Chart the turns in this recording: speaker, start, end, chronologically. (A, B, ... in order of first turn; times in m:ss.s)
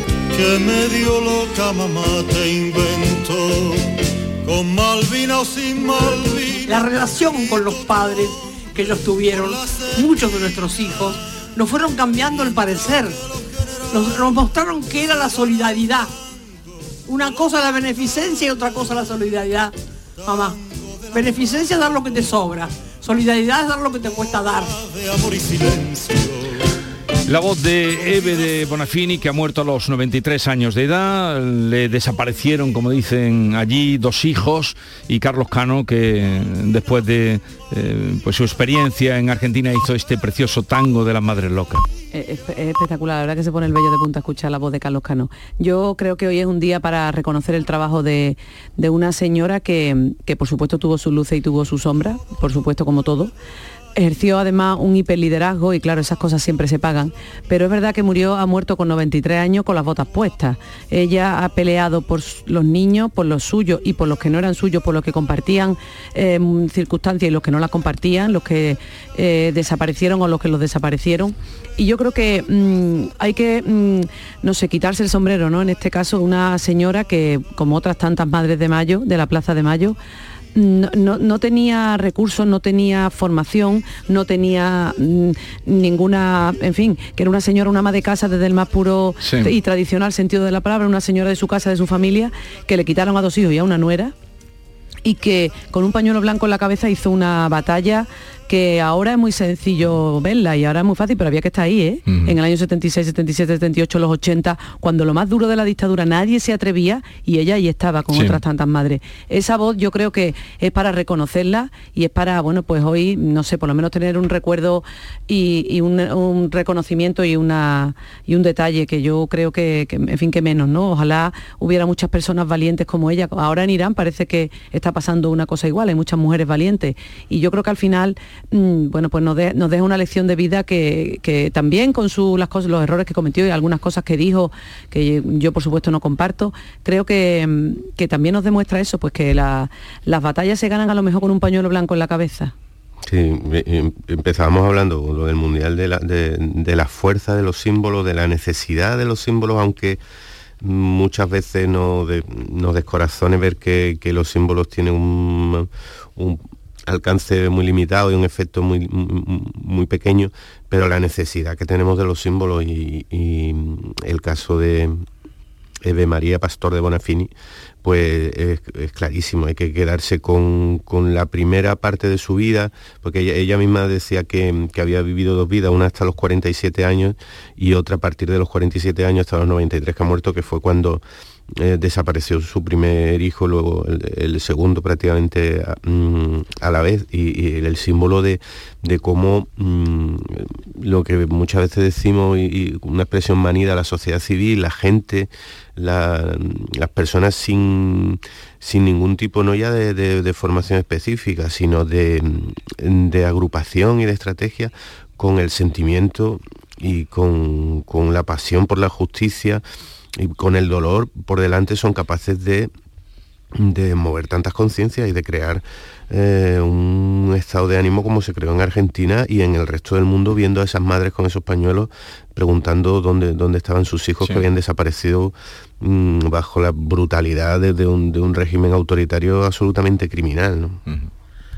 0:00.3-0:06.9 A
0:06.7-0:13.2 B
0:09.0-0:10.1 A
0:13.9-0:16.1 B
0:17.1-0:19.7 B
0:20.3-0:20.6 B
0:21.1-0:24.7 B
0:24.7-0:26.6 A
0:27.3-0:41.8 C
0:42.1-0:53.3 D
0:54.0-1:20.0 D
1:20.5-1:34.1 D
1:29.2-1:29.5 C
1:35.0-2:22.5 D
1:42.1-1:42.3 C
1:48.1-1:48.4 C
2:23.0-2:30.0 E
2:30.6-2:45.0 E
2:45.8-2:47.3 E
2:47.8-3:29.6 E
3:30.2-3:32.7 E
3:33.6-3:50.8 E